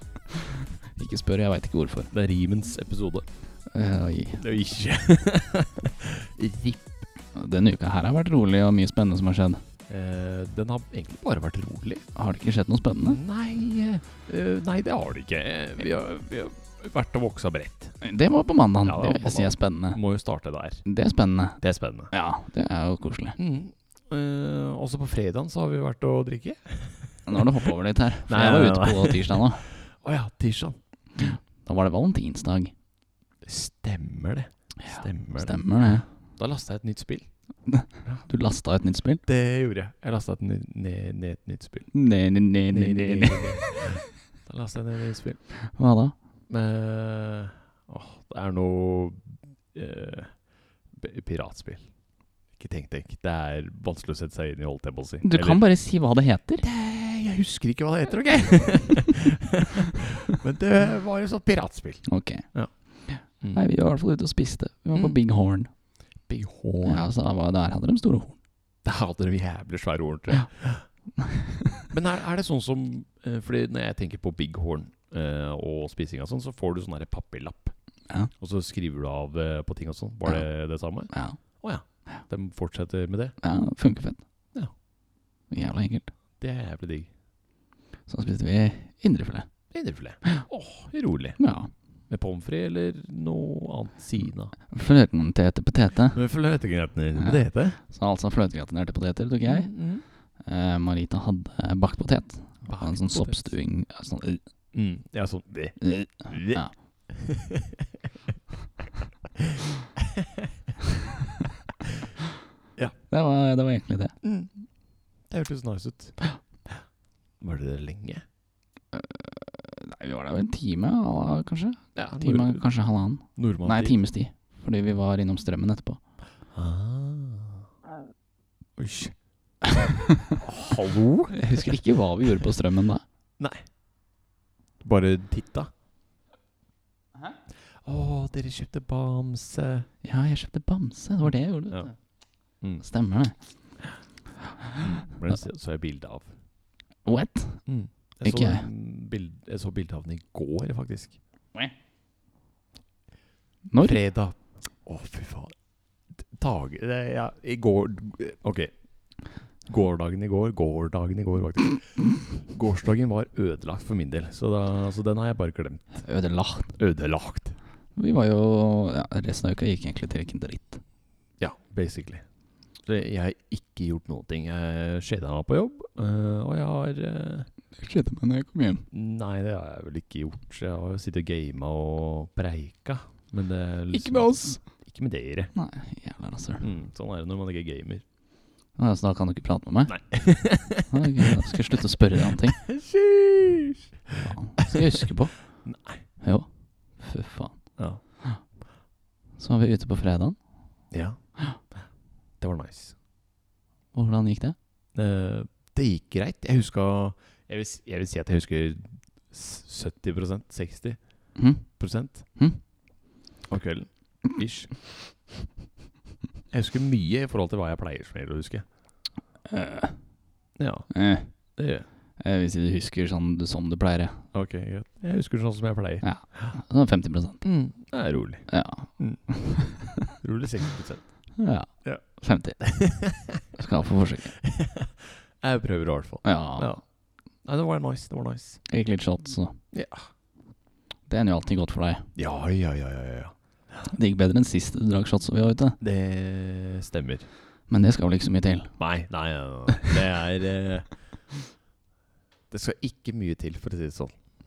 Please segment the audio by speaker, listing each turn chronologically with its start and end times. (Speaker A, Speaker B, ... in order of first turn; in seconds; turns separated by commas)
Speaker A: 0.5-2.1, Speaker B: 2.1-3.2, Speaker A: 3.7-4.4, Speaker B: 4.4-6.9, Speaker A: 7.3-9.6, Speaker B: 9.9-12.0, Speaker A: 12.1-13.2, Speaker B: 13.0-18.0, Speaker A: 18.0-20.0, Speaker B: 18.8-20.8, Speaker A: 20.8-21.6, Speaker B: 21.6-22.1, Speaker A: 22.1-23.4, Speaker B: 23.4-27.7, Speaker A: 27.2-29.6, Speaker B: 28.2-30.8, Speaker A: 31.1-32.7, Speaker B: 33.4-37.3, Speaker A: 34.8-36.1, Speaker A: 37.7-39.2, Speaker B: 39.2-41.9, Speaker A: 41.9-44.0, Speaker B: 42.7-45.4, Speaker A: 45.6-46.1, Speaker B: 46.5-51.9, Speaker B: 52.5-55.6, Speaker A: 55.2-56.6, Speaker B: 56.6-63.6, Speaker A: 62.0-65.7, Speaker B: 66.3-67.0, Speaker A: 66.8-68.4, Speaker B: 68.8-70.9, Speaker A: 71.2-71.8, Speaker B: 71.9-77.7, Speaker B: 78.4-83.3, Speaker A: 81.1-81.4, Speaker A: 83.4-84.2, Speaker A: 85.5-86.1, Speaker B: 86.4-87.1, Speaker A: 88.1-89.5, Speaker B: 89.7-91.4, Speaker A: 91.4-91.7, Speaker B: 92.1-94.5, Speaker A: 94.7-96.2, Speaker B: 96.1-97.8, Speaker A: 97.2-99.7, Speaker B: 99.5-100.0, Speaker A: 100.4-104.4, Speaker B: 102.6-103.5, Speaker B: 104.7-108.1, Speaker A: 105.8-106.8, Speaker B: 109.4-110.5, Speaker A: 113.1-114.1, Speaker B: 114.2-114.5, Speaker B: 115.3-116.2, Speaker B: 117.4-118.2, Speaker A: 118.9-126.0, Speaker B: 121.9-122.6, Speaker B: 123.3-124.0, Speaker B: 126.5-127.7, Speaker B: 128.8-129.2, Speaker A: 129.7-130.3, Speaker B: 130.4-131.8, Speaker A: 131.3-133.0, Speaker B: 133.4-133.7, Speaker B: 134.8-135.7, Speaker B: 137.8-139.9, Speaker A: 140.0-142.0, Speaker A: 142.8-143.3, Speaker B: 144.8-146.3, Speaker A: 147.0-147.7, Speaker B: 147.7-151.2, Speaker A: 148.2-148.7, Speaker A: 153.7-154.0, Speaker B: 153.8-155.5, Speaker B: 156.1-158.7, Speaker B: 159.7-166.0, Speaker A: 166.0-166.7, Speaker B: 166.8-167.6, Speaker A: 167.9-170.8, Speaker B: 171.4-172.2, Speaker B: 172.8-177.5, Speaker A: 177.7-178.8, Speaker B: 178.9-185.5, Speaker A: 183.9-184.6, Speaker A: 185.5-186.6, Speaker B: 186.6-188.0, Speaker A: 188.8-190.0, Speaker B: 189.9-191.3, Speaker A: 190.9-192.6, Speaker B: 192.2-195.1, Speaker A: 194.2-195.6, Speaker B: 195.6-196.0, Speaker A: 196.2-198.4, Speaker A: 199.4-200.4, Speaker B: 200.9-201.2, Speaker B: 202.4-203.0, Speaker A: 203.9-204.6, Speaker B: 204.9-211.0, Speaker A: 211.3-212.6, Speaker B: 211.6-212.3, Speaker B: 213.5-214.7, Speaker B: 216.5-218.6, Speaker A: 219.5-220.0, Speaker B: 220.6-221.8, Speaker A: 220.9-221.3, Speaker A: 222.2-224.2, Speaker B: 224.3-226.6, Speaker A: 226.0-227.4, Speaker B: 227.4-229.3, Speaker A: 228.5-230.0, Speaker B: 229.8-232.0, Speaker A: 231.4-232.7, Speaker B: 232.6-233.4, Speaker A: 233.5-234.4, Speaker B: 234.3-236.8, Speaker A: 236.2-236.7, Speaker B: 237.4-238.6, Speaker A: 238.7-239.6, Speaker B: 239.7-240.1, Speaker A: 241.1-242.1, Speaker B: 242.2-243.9, Speaker A: 243.9-245.8, Speaker B: 245.8-247.3, Speaker A: 247.7-248.8, Speaker B: 248.8-250.9, Speaker B: 252.5-254.2